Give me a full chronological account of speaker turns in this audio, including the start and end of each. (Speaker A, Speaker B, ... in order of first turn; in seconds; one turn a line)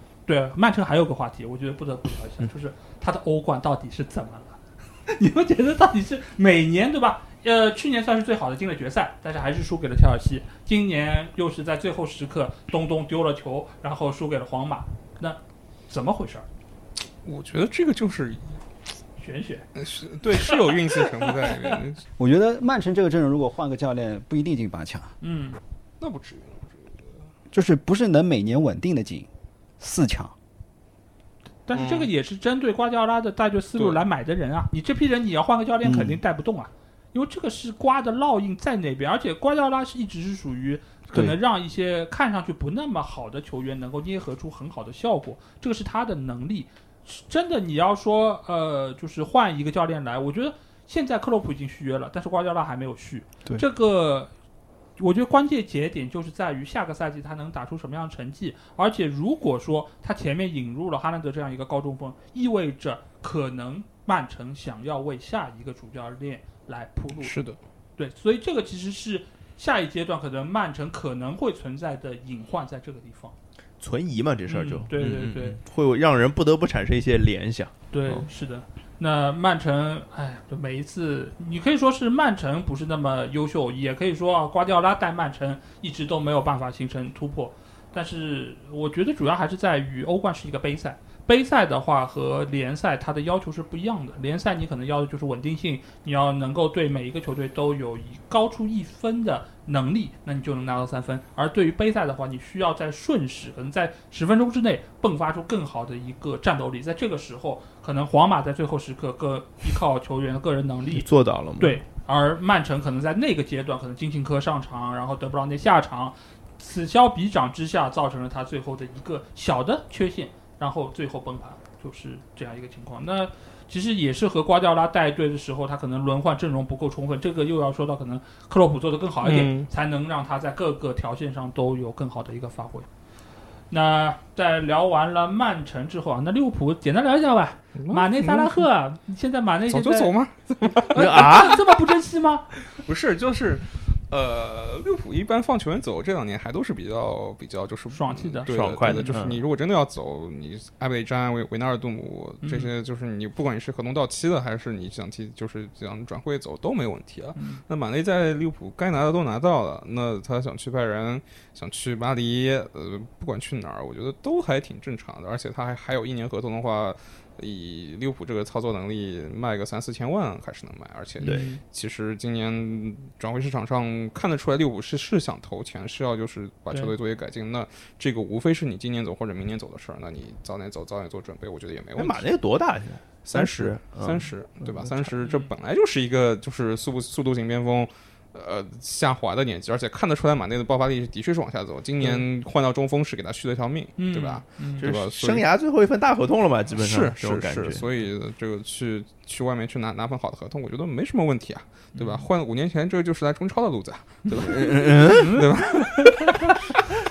Speaker A: 0.3-16.4
Speaker B: 17.2-18.6
Speaker A: 19.2-19.6
Speaker B: 19.8-22.0
Speaker A: 20.4-21.7
Speaker C: 22.2-25.1
Speaker A: 25.2-25.6
Speaker B: 26.0-27.1
Speaker C: 27.5-29.3
Speaker C: 29.8-30.3
Speaker A: 31.7-54.3
Speaker B: 31.7-32.1
Speaker C: 35.8-36.2
Speaker A: 55.0-67.3
Speaker B: 67.2-67.6
Speaker A: 68.0-73.3
Speaker D: 73.8-78.3
Speaker A: 74.5-75.6
Speaker A: 77.9-132.9
Speaker D: 110.9-111.8
Speaker B: 129.2-129.7
Speaker A: 133.7-140.1
Speaker B: 137.8-138.6
Speaker B: 139.7-141.6
Speaker A: 140.9-142.4
Speaker D: 140.9-141.6
Speaker B: 142.6-182.3
Speaker A: 147.9-149.2
Speaker D: 148.5-149.4
Speaker A: 152.4-152.7
Speaker A: 157.3-157.6
Speaker D: 171.2-171.5
Speaker A: 171.2-171.6
Speaker D: 182.0-185.1
Speaker B: 183.2-195.4
Speaker A: 194.0-194.8
Speaker D: 194.8-197.8
Speaker B: 196.7-206.8
Speaker A: 201.9-202.2
Speaker D: 204.3-205.4
Speaker A: 205.0-206.6